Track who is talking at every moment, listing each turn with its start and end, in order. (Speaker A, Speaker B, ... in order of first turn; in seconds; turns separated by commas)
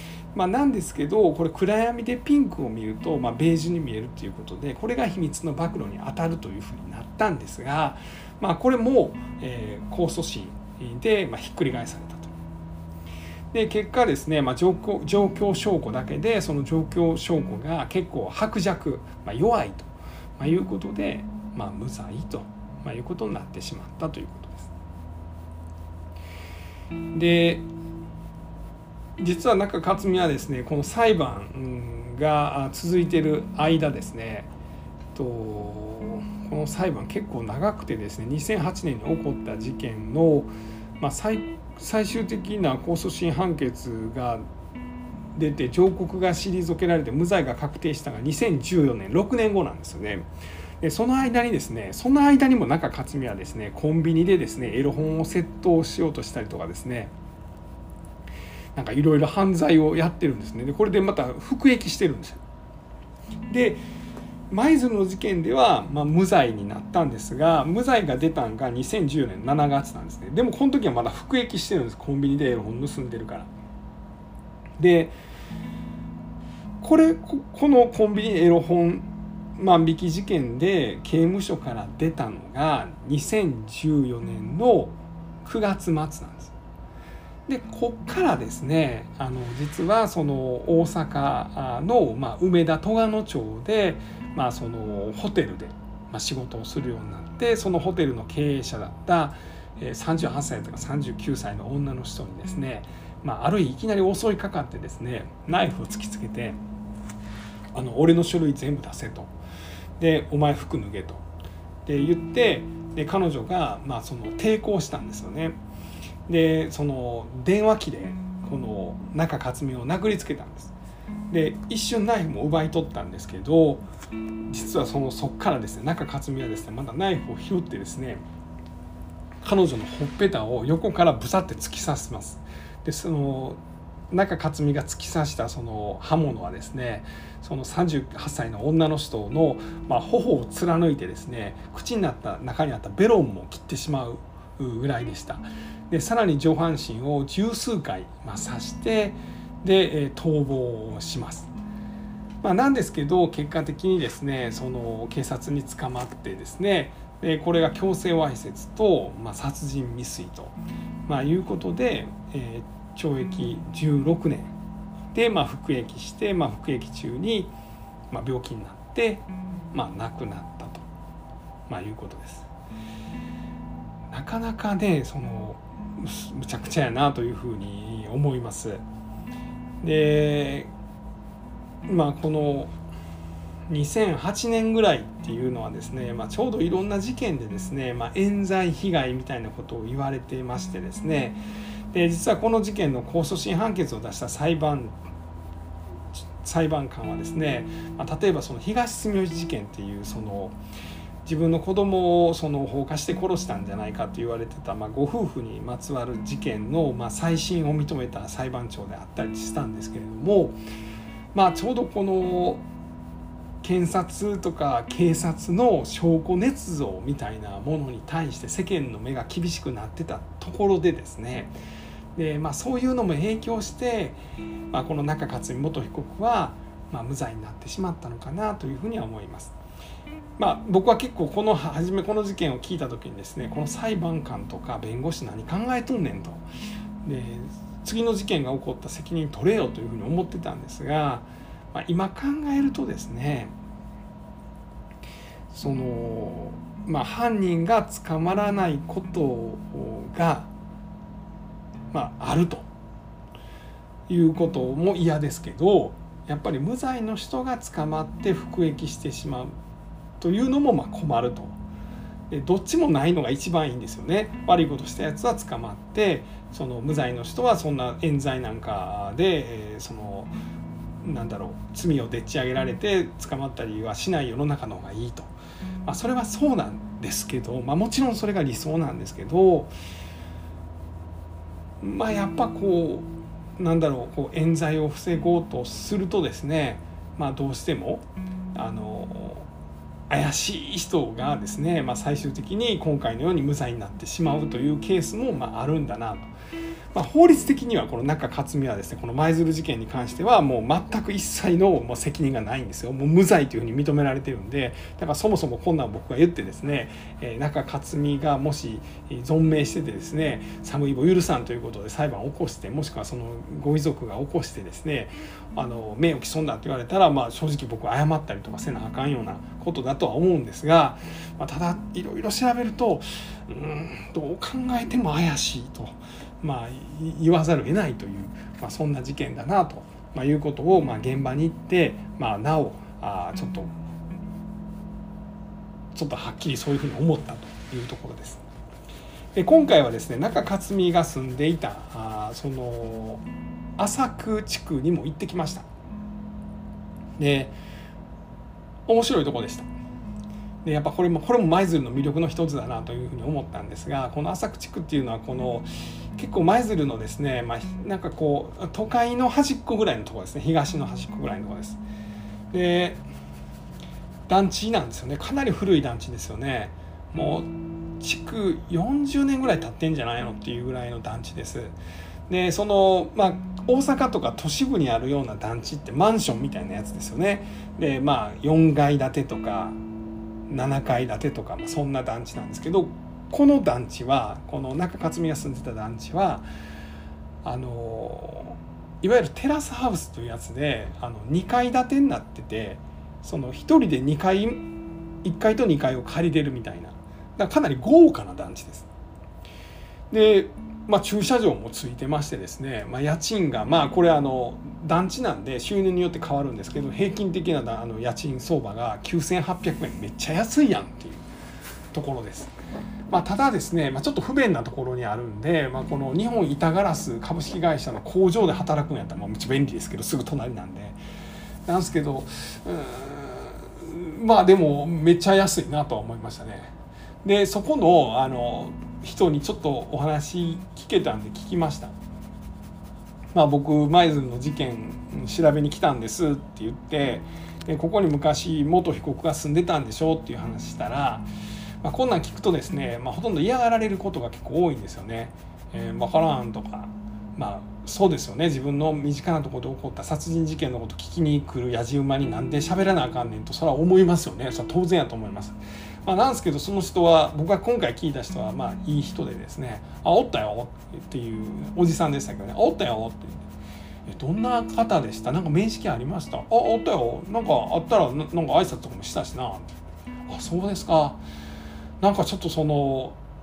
Speaker A: 0.3-12.3, Speaker A: 13.5-24.7, Speaker A: 27.1-27.7, Speaker A: 29.2-34.5, Speaker A: 35.1-44.4, Speaker A: 45.4-50.2, Speaker A: 50.8-57.1, Speaker A: 58.8-62.4, Speaker A: 63.5-63.8, Speaker A: 64.5-73.5, Speaker A: 74.8-75.2, Speaker A: 76.8-86.5, Speaker A: 87.5-106.6, Speaker A: 107.7-109.3, Speaker A: 110.0-111.2, Speaker A: 111.9-115.6, Speaker A: 116.3-120.7, Speaker A: 121.3-123.8, Speaker A: 124.5-128.2, Speaker A: 129.4-133.6, Speaker A: 134.1-151.5, Speaker A: 152.4-160.6, Speaker A: 161.1-164.6, Speaker A: 165.1-167.5, Speaker A: 168.1-170.8, Speaker A: 171.7-172.5, Speaker A: 174.1-178.8, Speaker A: 179.8-180.7, Speaker A: 181.9-182.7, Speaker A: 183.7-191.4, Speaker A: 191.9-194.9, Speaker A: 196.4-200.6, Speaker A: 201.2-210.6, Speaker A: 211.3-212.7, Speaker A: 213.6-221.5, Speaker A: 222.2-224.2, Speaker A: 224.7-229.6, Speaker A: 230.4-236.4, Speaker A: 237.1-243.5, Speaker A: 245.5-250.5, Speaker A: 251.9-252.7, Speaker A: 254.1-259.5, Speaker A: 260.2-261.6, Speaker A: 262.3-270.3, Speaker A: 271.0-275.3, Speaker A: 275.9-279.7, Speaker A: 281.8-289.5, Speaker A: 290.1-296.3, Speaker A: 296.9-333.7, Speaker A: 335.9-338.4, Speaker A: 339.4-343.2, Speaker A: 343.8-345.7, Speaker A: 347.2-347.6, Speaker A: 348.9-349.7, Speaker A: 350.6-361.8, Speaker A: 362.5-363.0, Speaker A: 364.3-371.8, Speaker A: 372.3-379.8, Speaker A: 380.5-386.5, Speaker A: 387.4-394.7, Speaker A: 395.2-398.9, Speaker A: 400.1-411.2, Speaker A: 411.9-412.5, Speaker A: 413.1-421.0, Speaker A: 421.7-426.7, Speaker A: 427.2-431.9, Speaker A: 433.3-441.3, Speaker A: 441.8-463.5, Speaker A: 464.1-469.7, Speaker A: 470.3-471.2, Speaker A: 472.0-473.2